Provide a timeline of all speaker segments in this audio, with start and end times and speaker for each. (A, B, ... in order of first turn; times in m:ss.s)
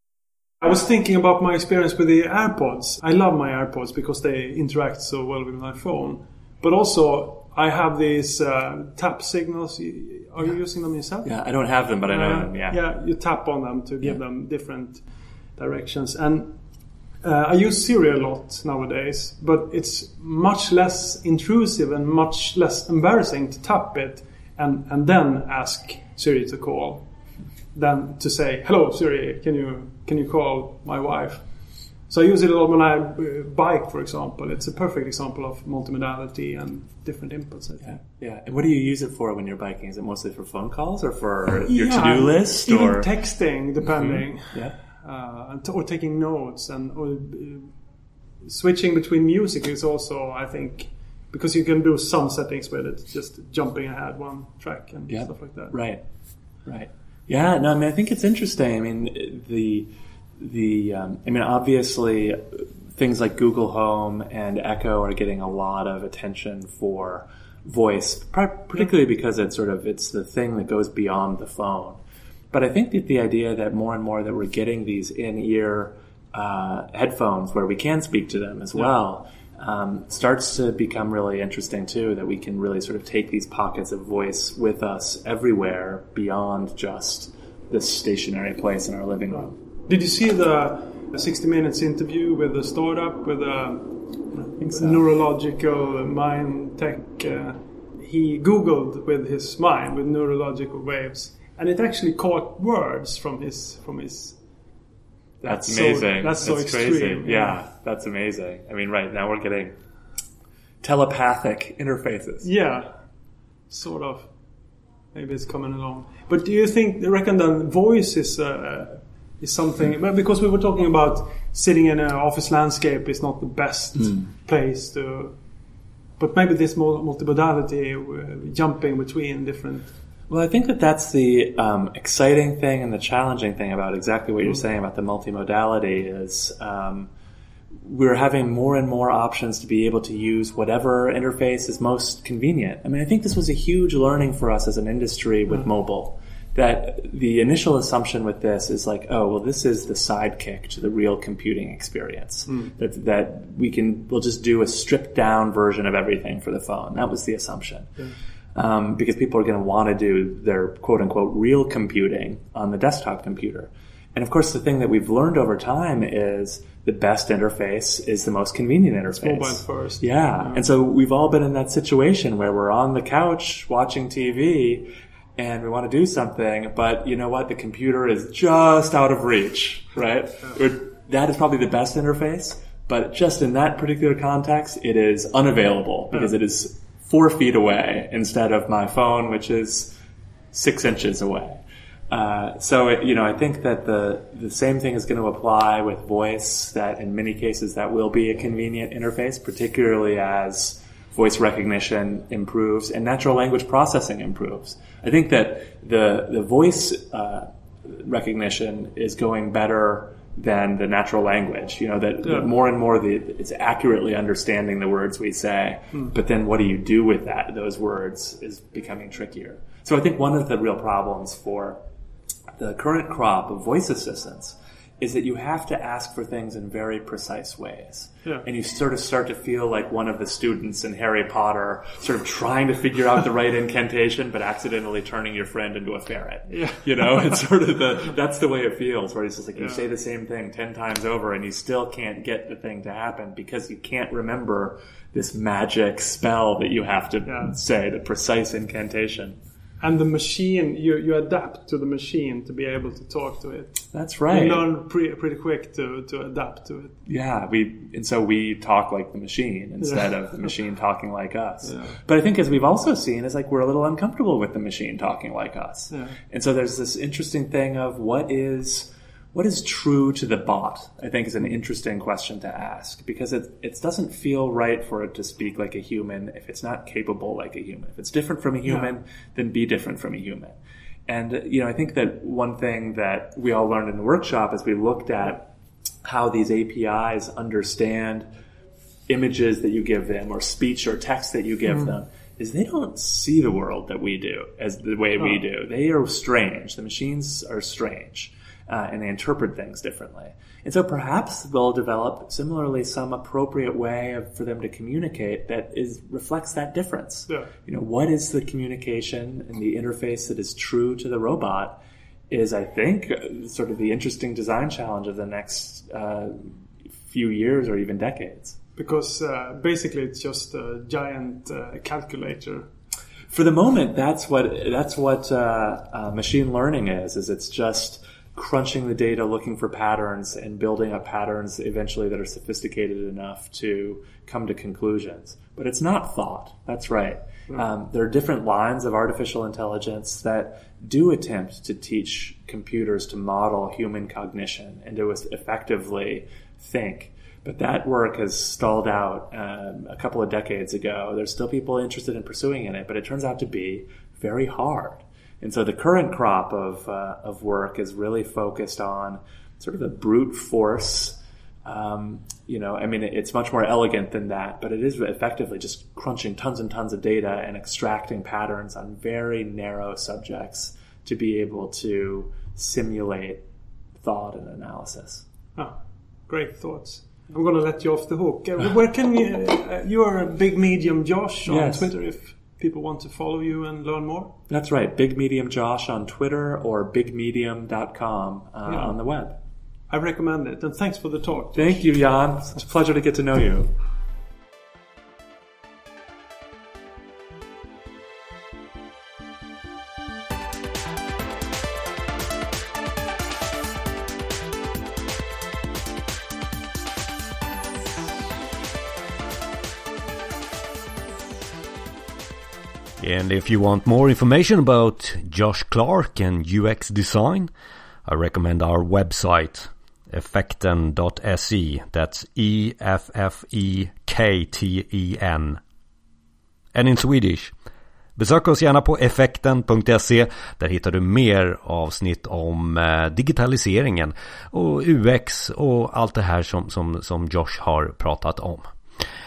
0:00.6-0:11.3 A
0:11.2-0:12.8 B
0:12.0-0:15.0 A
0:15.6-0:16.5 A
0:17.2-0:27.0 A
0:27.7-0:31.5 A
0:32.1-0:38.0 A
0:37.8-0:43.1 B
0:41.6-0:47.7 A
0:43.8-0:44.8 B
0:48.4-0:55.8 A
0:55.1-0:56.0 B
0:56.6-1:12.0 B
1:12.5-1:29.6 B
1:29.3-1:44.4 A
1:34.6-1:35.0 B
1:45.4-1:49.8 B
1:45.4-1:47.6 A
1:50.8-1:52.5 B
1:52.4-1:53.0 A
1:53.7-1:54.3 A
1:55.1-2:05.4 A
2:06.2-2:09.9 A
2:10.3-2:17.1 B
2:17.8-3:10.0 B
2:49.2-2:50.6 A
3:10.5-3:41.8 B
3:32.2-3:32.5 A
3:42.6-4:09.4 B
3:56.5-3:57.4 A
3:59.6-3:59.8 A
4:07.2-4:07.6 A
4:09.8-4:17.0 A
4:13.9-4:14.7 B
4:17.0-4:45.5 B
4:19.8-4:20.1 A
4:21.6-4:22.0 A
4:25.9-4:26.2 A
4:46.0-4:48.3 B
4:49.1-5:11.8 B
5:12.3-5:18.6 B
5:18.8-5:22.7 A
5:23.3-6:13.4 B
6:14.0-6:15.2 B
6:16.3-6:24.3 A
6:21.5-6:21.9 B
6:24.5-6:29.4 B
6:28.7-6:28.9 A
6:29.9-6:31.9 A
6:31.5-6:33.7 B
6:53.0-6:57.5 C
6:58.0-7:05.6 C
7:06.7-7:07.5 C
7:08.2-7:18.7 C